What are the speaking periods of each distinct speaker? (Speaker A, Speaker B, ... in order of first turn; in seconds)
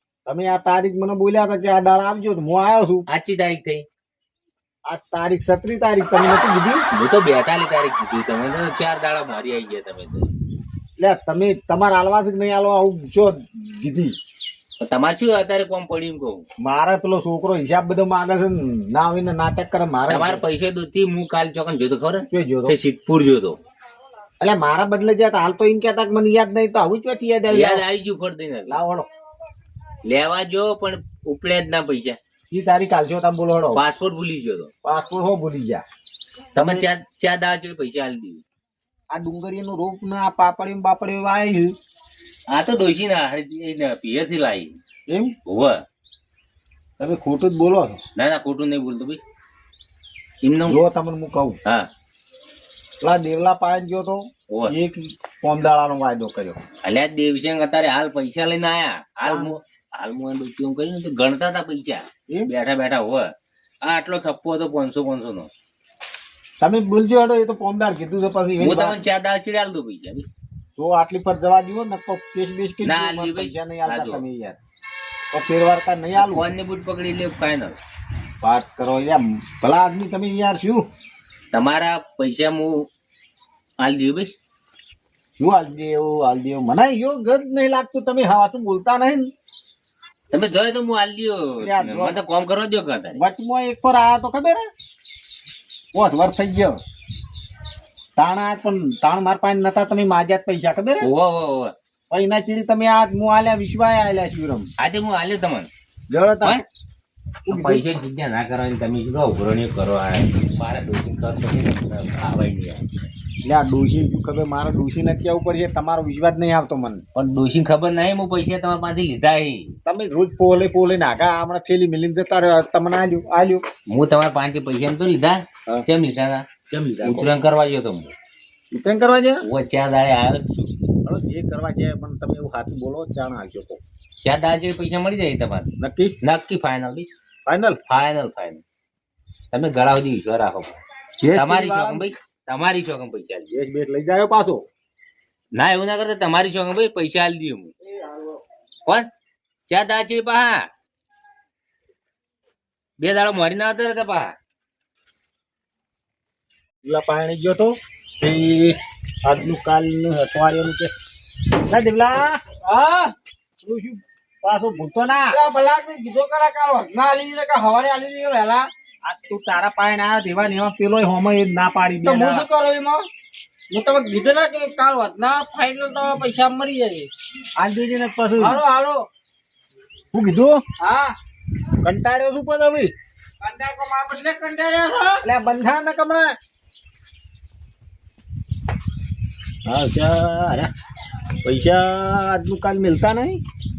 Speaker A: 0.3-3.0, 4.9-6.8, 11.0-14.2, 16.6-20.4, 22.3-22.8, 24.4-27.8, 28.7-29.1, 32.5-33.8, 34.8-35.8, 36.6-36.9, 39.1-41.8, 45.1-45.4, 47.0-48.0, 50.7-51.6, 53.0-56.6, 59.3-59.5, 66.6-69.0, 70.8-74.6, 75.3-76.5, 78.4-80.8, 85.4-89.3, 91.6-92.2, 93.2-94.6, 95.9-96.8, 98.2-101.1, 102.1-104.7, 106.1-106.6, 107.5-107.8, 113.4-117.0, 119.8-123.6, 126.7-127.3, 128.7-129.4, 131.1-133.8, 135.8-136.2, 137.5-137.8, 141.2-142.1, 143.5-144.6, 147.8-148.4, 156.8-160.9, 161.7-162.4, 163.6-165.4, 169.1-172.5, 177.6-178.6, 180.1-180.6, 181.8-182.9, 185.2-186.4, 189.7-190.7, 191.4-193.4
Speaker B: 3.1-3.9, 6.9-10.3, 14.8-16.4, 20.1-23.6, 27.5-28.8, 30.0-32.2, 33.7-34.7, 36.5-38.4, 42.5-44.8, 45.5-45.8, 48.2-49.2, 50.4-50.8, 56.8-63.3, 63.8-65.5, 68.6-70.3, 72.8-74.2, 76.2-77.8, 81.5-82.7, 83.8-84.4, 90.3-93.2, 101.0-101.7, 104.8-105.7, 107.5-112.8, 117.2-119.8, 123.9-126.5, 127.0-128.1, 129.4-130.7, 134.2-135.7, 136.2-137.2, 137.9-138.6, 139.5-140.8, 141.3-143.5, 145.5-147.7, 149.7-150.7, 153.0-154.3
Speaker C: 162.6-163.1, 165.3-168.7, 172.0-173.1, 173.7-177.1, 178.4-179.1, 180.8-181.1, 183.4-185.2